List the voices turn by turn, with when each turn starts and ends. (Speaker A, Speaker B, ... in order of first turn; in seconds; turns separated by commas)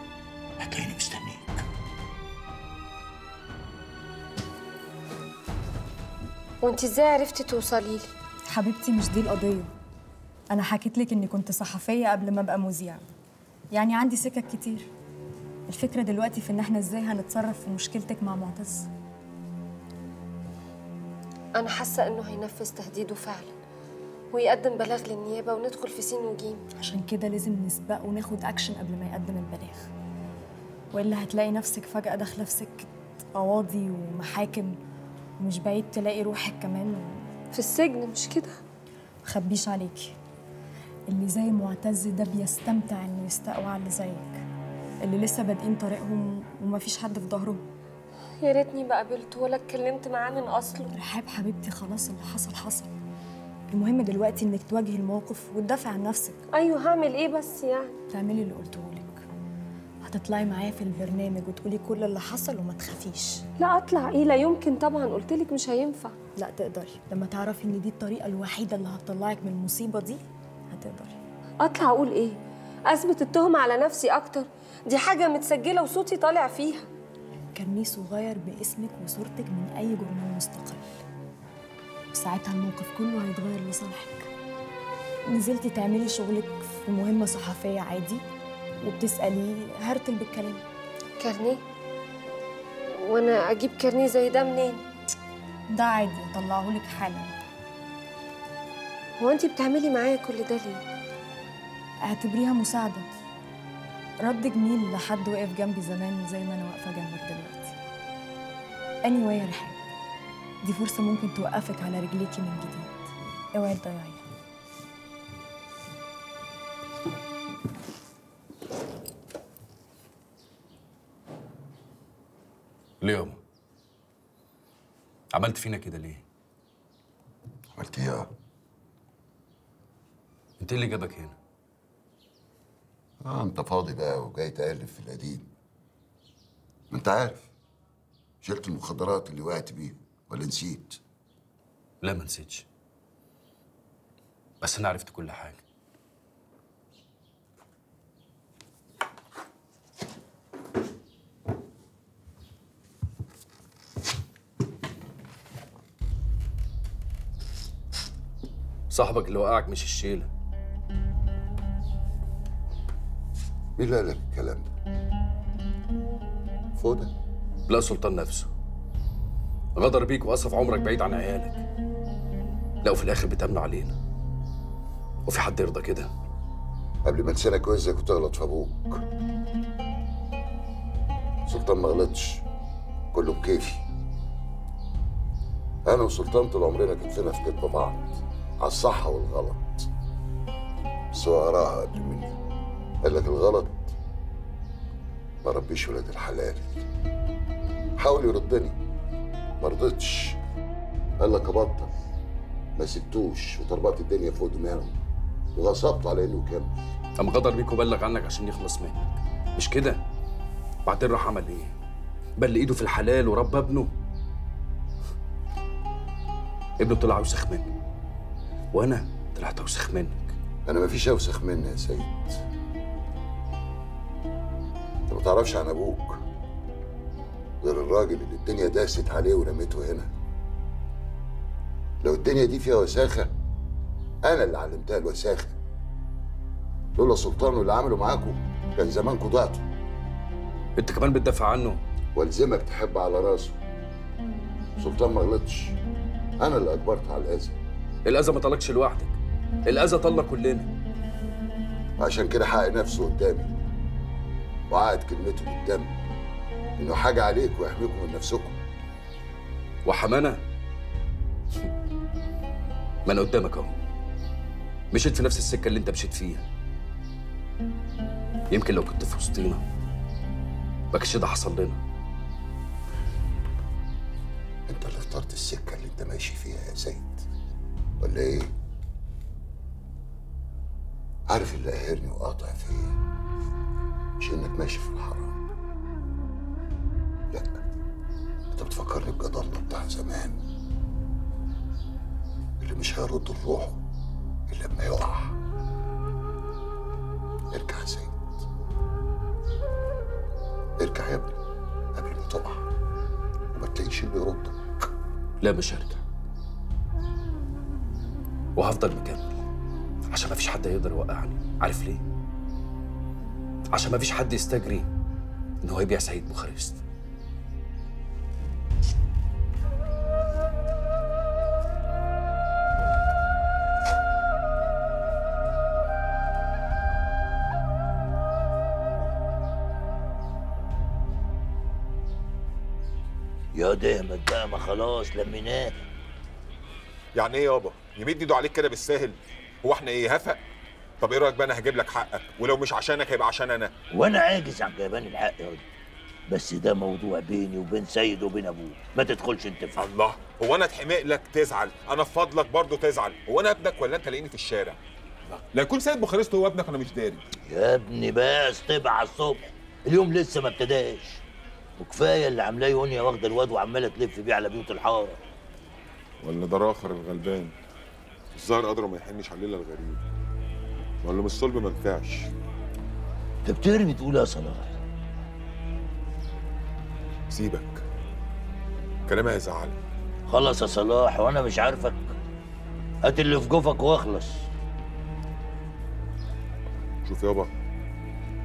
Speaker A: 0.6-1.6, Speaker B: 6.6-8.1, Speaker C: 8.5-9.7, Speaker C: 10.5-13.1, Speaker C: 13.7-14.9, Speaker C: 15.7-18.9, Speaker B: 21.6-23.5, Speaker B: 24.3-26.6, Speaker C: 26.8-29.9, Speaker C: 30.9-34.8, Speaker C: 35.4-37.3, Speaker B: 37.5-38.5, Speaker C: 39.2-40.1, Speaker C: 41.1-44.4, Speaker C: 45.0-47.6, Speaker B: 48.4-50.9, Speaker C: 50.9-52.9, Speaker C: 53.7-56.4, Speaker B: 56.6-58.0, Speaker C: 58.1-59.2, Speaker C: 60.0-63.4, Speaker B: 63.6-66.1, Speaker C: 66.3-71.2, Speaker B: 71.6-72.3, Speaker B: 72.9-76.9, Speaker C: 77.5-80.9, Speaker C: 82.1-84.3, Speaker C: 85.3-88.2, Speaker C: 88.8-90.6, Speaker B: 91.2-91.6, Speaker B: 93.1-94.8, Speaker C: 95.7-97.4, Speaker B: 99.2-100.8, Speaker C: 102.0-103.0, Speaker C: 104.2-107.7, Speaker C: 109.0-109.8, Speaker C: 110.6-113.0, Speaker C: 113.5-114.2, Speaker D: 123.0-123.4, Speaker D: 125.3-126.2, Speaker E: 127.7-128.3, Speaker D: 130.6-131.3, Speaker E: 133.2-135.5, Speaker E: 136.9-137.5, Speaker E: 138.4-141.0, Speaker D: 142.0-142.7, Speaker D: 144.6-145.6, Speaker D: 158.9-160.3, Speaker E: 163.8-164.7, Speaker E: 166.8-167.1, Speaker D: 167.7-168.5, Speaker D: 169.8-171.6, Speaker D: 172.8-174.0, Speaker D: 175.2-176.1, Speaker E: 177.0-179.0, Speaker E: 181.5-182.4, Speaker E: 183.1-183.8, Speaker E: 185.8-189.9, Speaker E: 191.1-192.4, Speaker E: 193.0-193.9, Speaker E: 195.4-196.8, Speaker E: 198.0-198.8, Speaker E: 199.6-200.4, Speaker E: 201.2-201.9, Speaker E: 202.8-204.9, Speaker E: 205.5-206.7, Speaker D: 207.2-210.0, Speaker D: 210.8-211.7, Speaker D: 212.4-213.9, Speaker D: 216.8-217.7, Speaker D: 218.7-220.3, Speaker E: 220.7-222.4, Speaker E: 225.1-226.2, Speaker E: 227.6-230.1, Speaker E: 232.0-233.3, Speaker E: 234.2-235.6, Speaker E: 236.9-239.6, Speaker D: 240.8-241.8, Speaker E: 242.1-243.6, Speaker E: 244.8-245.7, Speaker E: 246.4-247.6, Speaker D: 248.0-250.7, Speaker E: 252.0-253.5, Speaker E: 254.7-255.9, Speaker E: 256.8-258.6, Speaker D: 259.8-260.4, Speaker D: 263.1-263.7, Speaker D: 264.9-266.4, Speaker D: 268.5-269.6, Speaker D: 270.9-271.8, Speaker E: 274.7-277.2, Speaker E: 278.0-278.5, Speaker E: 281.3-283.0, Speaker E: 284.2-285.3, Speaker E: 287.3-287.6, Speaker E: 288.5-290.4, Speaker E: 292.6-293.8, Speaker E: 294.5-295.4, Speaker E: 297.5-298.2, Speaker E: 300.8-301.4, Speaker E: 301.9-302.6, Speaker E: 303.5-304.6, Speaker D: 305.4-306.0, Speaker D: 308.6-309.3, Speaker D: 310.1-312.0, Speaker D: 313.7-314.9, Speaker D: 315.6-316.8, Speaker A: 333.5-335.8, Speaker F: 337.1-340.4, Speaker F: 341.0-343.7, Speaker A: 343.9-345.6, Speaker A: 346.3-349.8, Speaker F: 349.8-354.8, Speaker F: 355.5-357.2, Speaker A: 357.5-361.2, Speaker A: 361.8-365.2, Speaker F: 366.2-367.5, Speaker F: 368.3-370.0, Speaker F: 371.0-372.3, Speaker A: 373.4-374.8, Speaker F: 377.3-377.8, Speaker F: 379.1-379.8, Speaker A: 380.3-382.1, Speaker A: 383.0-384.5, Speaker F: 387.0-387.5